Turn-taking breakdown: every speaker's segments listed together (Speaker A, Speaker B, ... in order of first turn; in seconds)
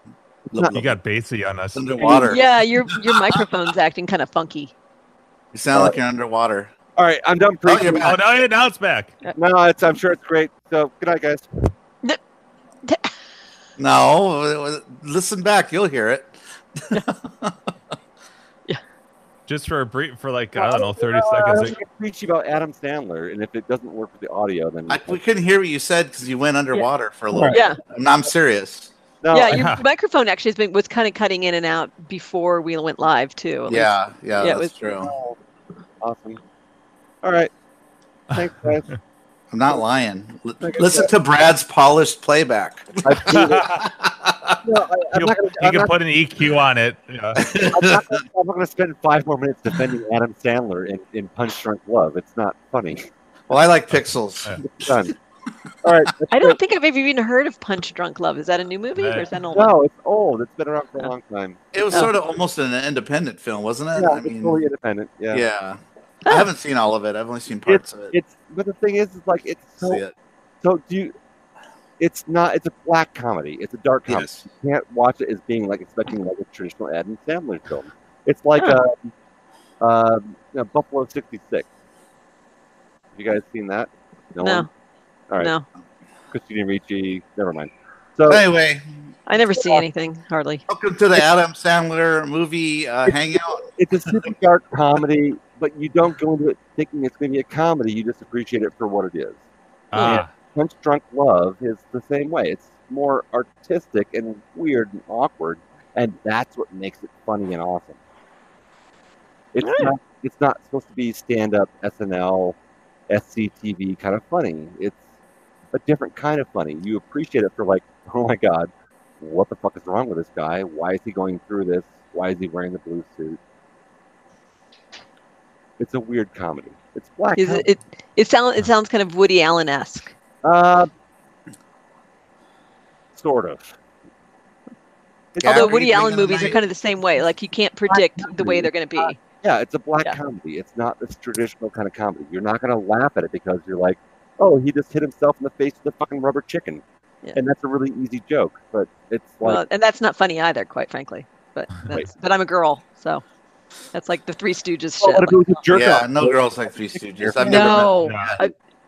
Speaker A: 0.5-0.8, 2.0-2.4, 7.0-8.2, 9.3-11.5, 20.5-25.2, 29.2-29.7, 34.9-35.4, 36.0-36.4, 37.2-37.5, 38.3-38.9, 40.6-41.1, 43.0-43.7, 44.6-45.9, 47.7-53.1, 54.6-55.1, 55.8-56.6, 59.5-61.6, 64.0-65.4, 67.7-70.0, 70.6-71.1, 72.0-79.1, 79.8-81.7, 83.1-84.7, 86.3-88.4, 93.8-99.4, 100.0-108.0, 109.5-112.5, 113.1-115.0, 115.7-123.4, 125.8-127.6, 130.4-130.9, 133.2-133.7, 135.3-135.9, 137.9-146.8, 147.3-149.6, 155.0-158.0
Speaker B: 0.5-0.9, 1.7-3.4, 5.5-6.7, 7.6-8.2, 13.8-17.5, 24.9-28.9, 33.7-35.1, 39.5-44.6, 47.4-48.2, 53.5-54.6, 61.7-64.7, 65.3-68.1, 69.8-70.1, 74.1-74.4, 88.2-88.8, 90.7-94.3, 135.4-136.6, 155.7-158.4
Speaker C: 0.7-2.2, 8.0-9.2, 19.5-21.8, 29.5-29.8, 43.3-43.8, 45.1-47.5, 59.0-59.2, 99.9-100.3, 158.0-158.4
Speaker D: 2.2-4.7, 12.8-13.1, 27.5-27.8, 29.3-34.7, 56.3-59.7, 84.4-84.7, 85.4-85.7, 89.3-90.6, 100.0-100.2, 109.6-109.9, 127.3-130.1, 135.4-139.2, 149.4-153.2, 153.9-155.4, 157.4-158.5